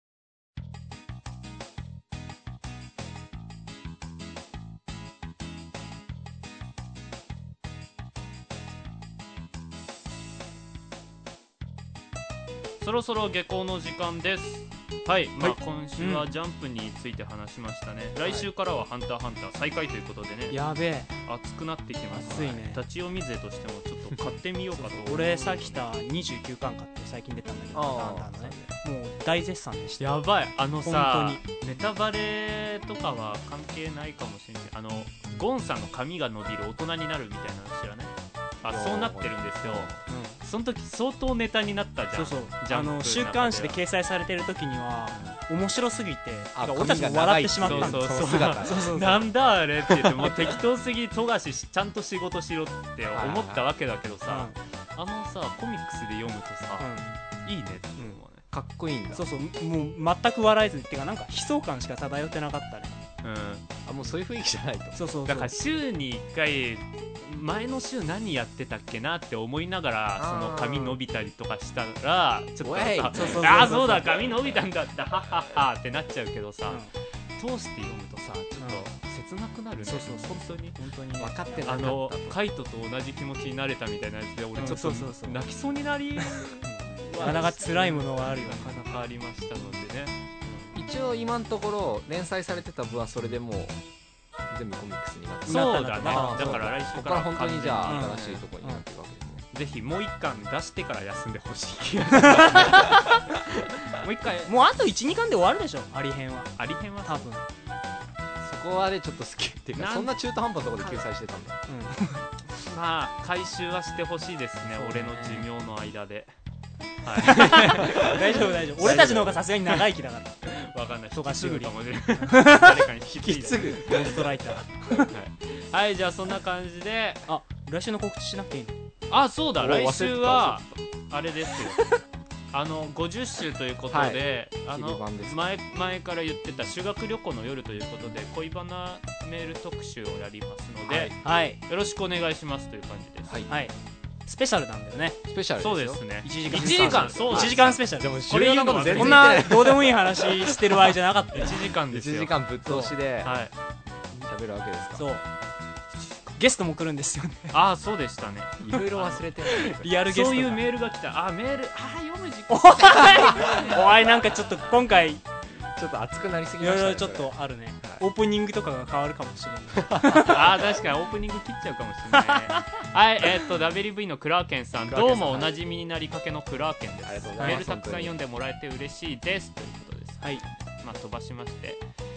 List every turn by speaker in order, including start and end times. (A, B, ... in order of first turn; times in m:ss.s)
0:12.8-0:20.6 A
0:16.0-0:16.3 B
0:18.2-0:18.5 C
0:20.5-0:21.1 B
0:21.2-0:25.8 A
0:22.1-0:22.8 B
0:24.9-0:30.2 B
0:27.7-0:28.6 C
0:30.0-0:43.8 A
0:30.8-0:31.4 B
0:38.7-0:40.0 C
0:40.1-0:40.4 B
0:42.2-0:49.3 B
0:46.5-0:48.9 C
0:47.6-0:56.9 A
0:49.9-0:50.4 C
0:53.1-0:53.7 C
0:54.3-0:54.6 B
0:56.8-0:57.1 B
0:57.4-0:58.4 A
0:58.5-0:59.2 C
0:59.1-1:03.0 B
1:03.2-1:03.7 A
1:03.9-1:05.0 C
1:05.0-1:05.5 B
1:05.2-1:20.8 A
1:10.2-1:11.0 C
1:12.6-1:14.6 C
1:13.1-1:14.2 B
1:18.6-1:18.9 B
1:19.8-1:21.6 B
1:21.2-1:22.4 C
1:21.6-1:30.7 A
1:24.6-1:25.4 B
1:26.6-1:28.8 B
1:27.2-1:27.5 C
1:30.7-1:33.8 C
1:34.5-1:39.5 C
1:35.5-1:36.7 B
1:35.5-1:38.4 A
1:37.9-1:38.8 B
1:39.5-1:43.1 A
1:42.2-1:43.4 B
1:43.6-1:44.5 A
1:44.5-1:47.4 B
1:46.6-1:47.4 A
1:48.4-1:51.6 C
1:49.8-1:50.1 A
1:50.8-1:51.1 A
1:51.7-1:52.2 B
1:52.6-1:56.3 A
1:54.7-1:55.5 B
1:57.0-1:58.2 A
1:57.2-2:00.5 B
1:57.4-1:59.4 C
1:58.8-1:59.8 A
2:00.4-2:03.9 A
2:01.1-2:02.8 B
2:03.1-2:04.3 C
2:03.6-2:05.1 B
2:04.9-2:05.3 C
2:05.5-2:07.2 A
2:07.3-2:08.8 B
2:09.1-2:12.0 A
2:09.6-2:10.7 C
2:12.5-2:23.4 A
2:13.9-2:15.4 C
2:20.9-2:21.1 C
2:21.2-2:21.6 B
2:23.5-2:23.8 B
2:24.3-2:25.2 B
2:25.3-2:30.9 C
2:25.6-2:29.5 A
2:26.2-2:28.2 B
2:28.9-2:31.6 B
2:31.3-2:32.4 A
2:31.9-2:33.4 C
2:32.7-2:32.9 B
2:33.2-2:33.5 A
2:34.2-2:35.1 C
2:35.0-2:35.2 B
2:36.4-2:37.6 B
2:37.5-2:39.2 A
2:38.6-2:39.9 C
2:39.5-2:40.6 B
2:39.9-2:44.0 A
2:42.5-2:45.2 B
2:43.3-2:43.6 C
2:45.8-2:48.0 C
2:46.6-2:50.5 B
2:49.8-2:50.6 C
2:50.2-3:01.8 A
2:52.1-2:52.7 B
2:54.9-2:55.6 C
2:57.0-2:58.2 C
2:57.4-2:57.6 B